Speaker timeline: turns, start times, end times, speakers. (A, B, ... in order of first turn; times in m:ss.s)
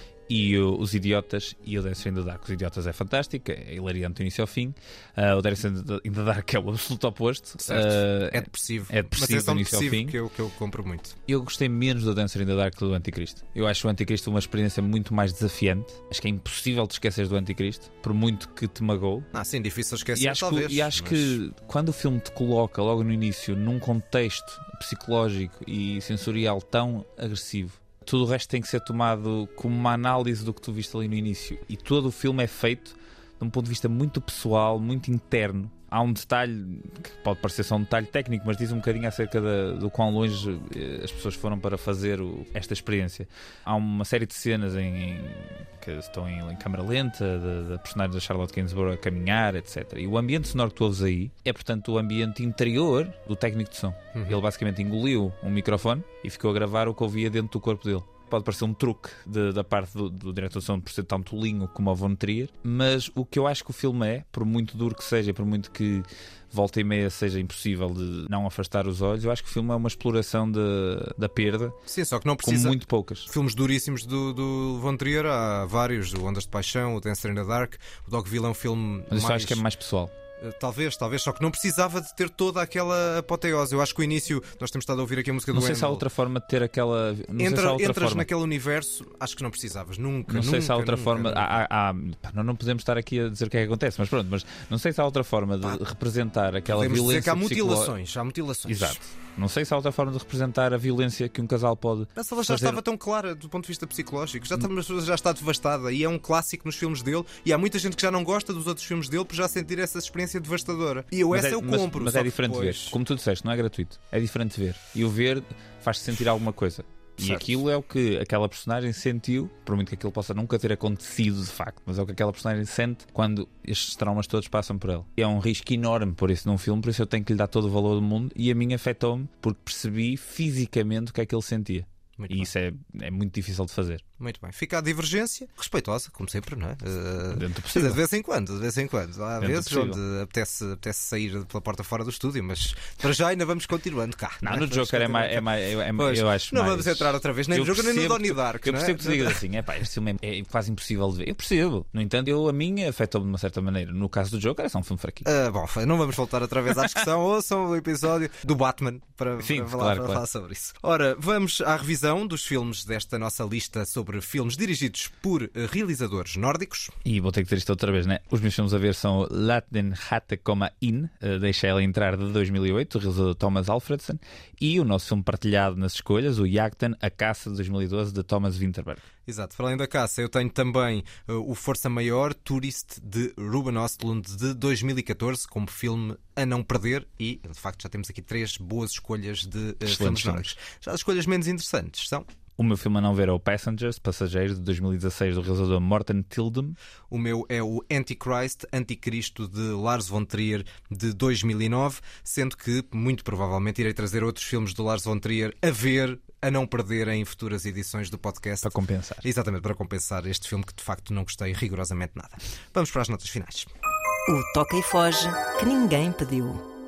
0:00.3-0:10.2 A
0:07.6-0:11.2 B
0:11.3-0:19.3 A
0:19.3-0:21.4 B
0:20.2-1:11.8 A
0:54.1-0:54.4 B
1:11.9-1:19.6 B
1:12.4-1:13.3 A
1:19.1-1:20.1 A
1:20.4-1:26.0 B
1:25.5-1:28.3 A
1:27.4-1:31.6 B
1:30.3-1:37.9 A
1:36.7-1:39.0 B
1:38.7-1:42.8 A
1:42.2-1:53.0 B
1:51.3-2:14.0 A
1:57.2-1:57.5 B
2:12.2-2:12.5 B
2:14.2-2:29.4 B
2:17.3-2:18.0 A
2:19.4-2:20.0 A
2:24.4-2:35.3 A
2:35.2-2:47.0 B
2:39.4-2:40.2 A
2:47.0-2:59.0 A
2:59.3-3:12.3 B
3:09.8-3:10.5 A
3:12.6-3:16.8 A
3:17.1-3:33.7 B
3:28.6-3:29.3 A
3:34.3-3:36.6 C